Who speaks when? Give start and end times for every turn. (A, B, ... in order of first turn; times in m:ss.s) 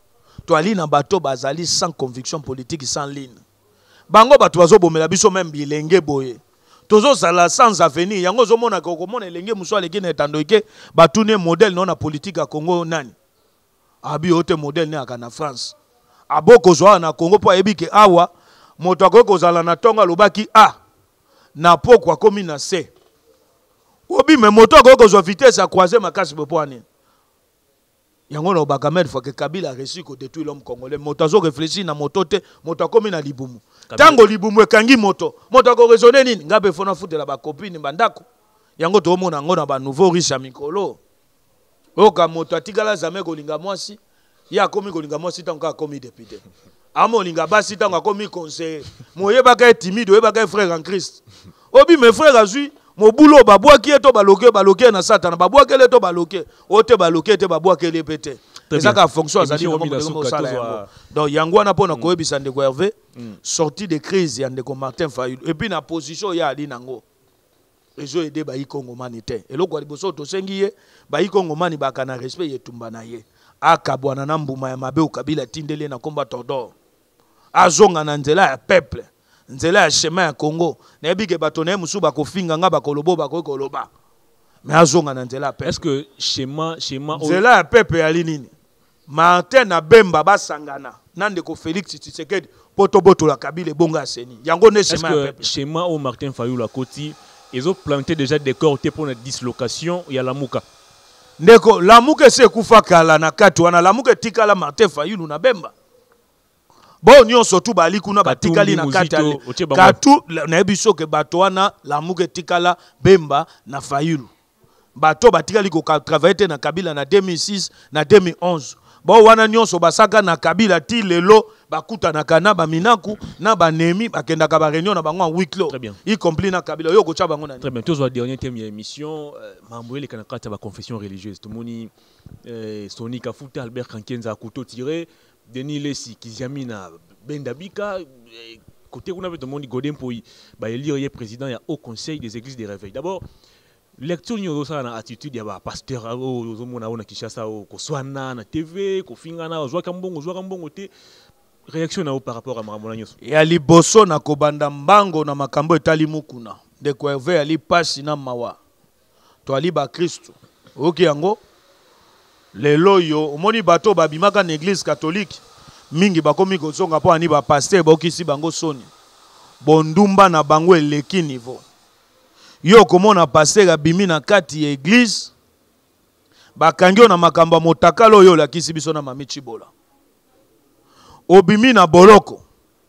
0:00.5-0:03.4 A
0:04.1-0:13.1 A
0:14.0-0:15.8 A
0:16.3-0:20.7 A
0:21.5-0:22.9 A
0:24.1-0:26.8 A
0:28.3-0:38.2 A
0:33.9-0:34.2 B
0:38.8-0:41.0 A
0:42.0-0:44.0 A
0:44.5-0:46.4 A
0:46.9-0:51.2 A
0:51.7-1:07.0 A
0:58.7-1:00.9 B
1:08.0-1:16.7 A
1:17.5-1:23.9 A
1:24.6-1:25.8 A
1:25.6-1:27.4 B
1:27.1-1:28.5 A
1:29.1-1:35.5 A
1:34.9-1:40.6 B
1:41.4-1:45.7 A
1:47.0-1:54.3 A
1:48.2-1:50.0 B
1:54.9-2:07.7 A
2:05.7-2:06.0 B
2:07.6-2:11.9 B
2:12.4-2:23.2 B
2:24.0-2:30.9 B
2:31.7-2:33.2 B
2:33.2-2:38.6 A
2:39.4-2:41.4 A
2:42.5-2:48.9 A
2:49.6-2:51.6 A
2:52.6-2:55.3 A
2:56.6-2:59.7 A
3:01.3-3:02.4 A